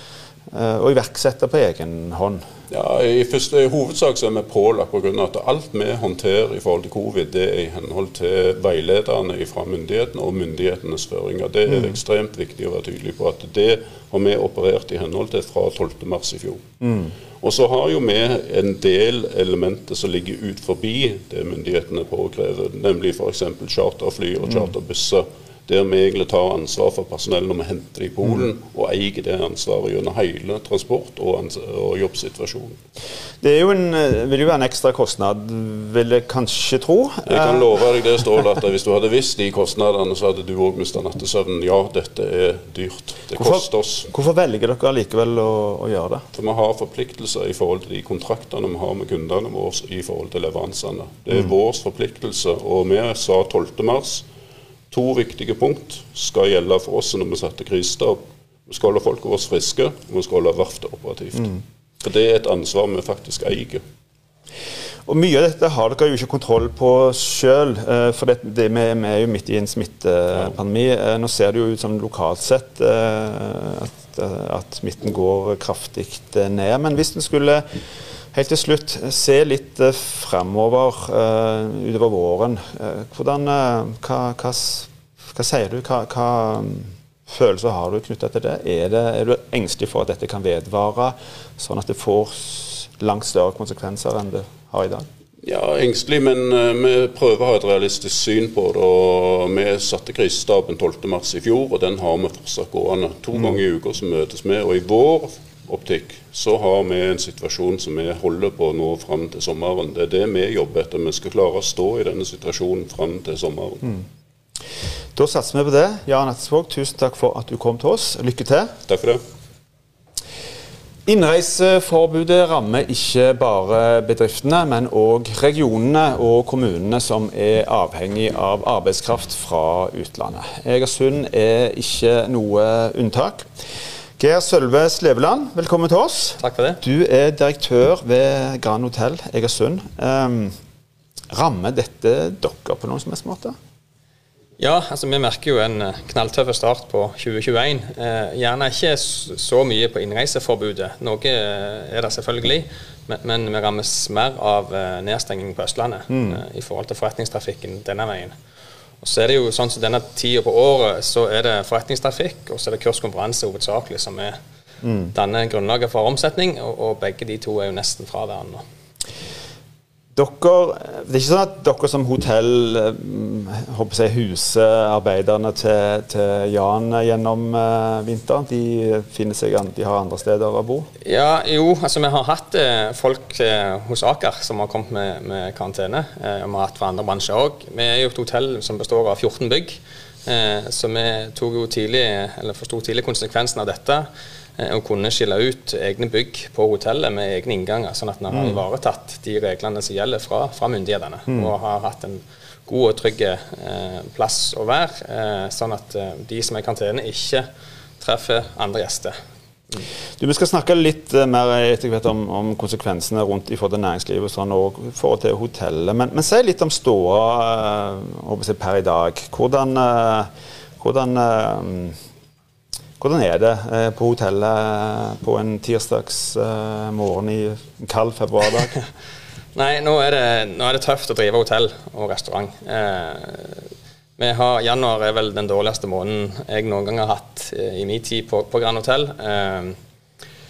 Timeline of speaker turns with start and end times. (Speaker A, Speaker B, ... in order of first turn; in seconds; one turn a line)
Speaker A: 0.5-2.4
Speaker B: 2.7-16.6
Speaker A: 16.8-17.1
Speaker B: 17.4-32.8
Speaker A: 33.4-37.7
Speaker B: 37.2-44.1
Speaker A: 43.4-46.2
Speaker B: 46.3-54.3
Speaker B: 54.9-63.8
Speaker A: 65.1-77.7
Speaker A: 78.3-95.1
Speaker B: 95.4-114.0
Speaker A: 115.2-118.7
Speaker B: 118.9-119.2
Speaker A: 121.1-133.5
Speaker A: 134.2-140.5
Speaker C: 136.4-136.8
Speaker A: 141.3-143.6
Speaker C: 144.6-158.3
Speaker A: 156.1-156.4
Speaker C: 159.0-164.4
Speaker A: 164.8-165.1
Speaker C: 165.1-168.6
Speaker A: 170.2-180.9
Speaker C: 181.0-207.5
Speaker A: 198.3-198.6
Speaker C: 208.0-209.2
Speaker A: 210.2-222.0
Speaker A: 223.0-228.7
Speaker C: 229.5-239.8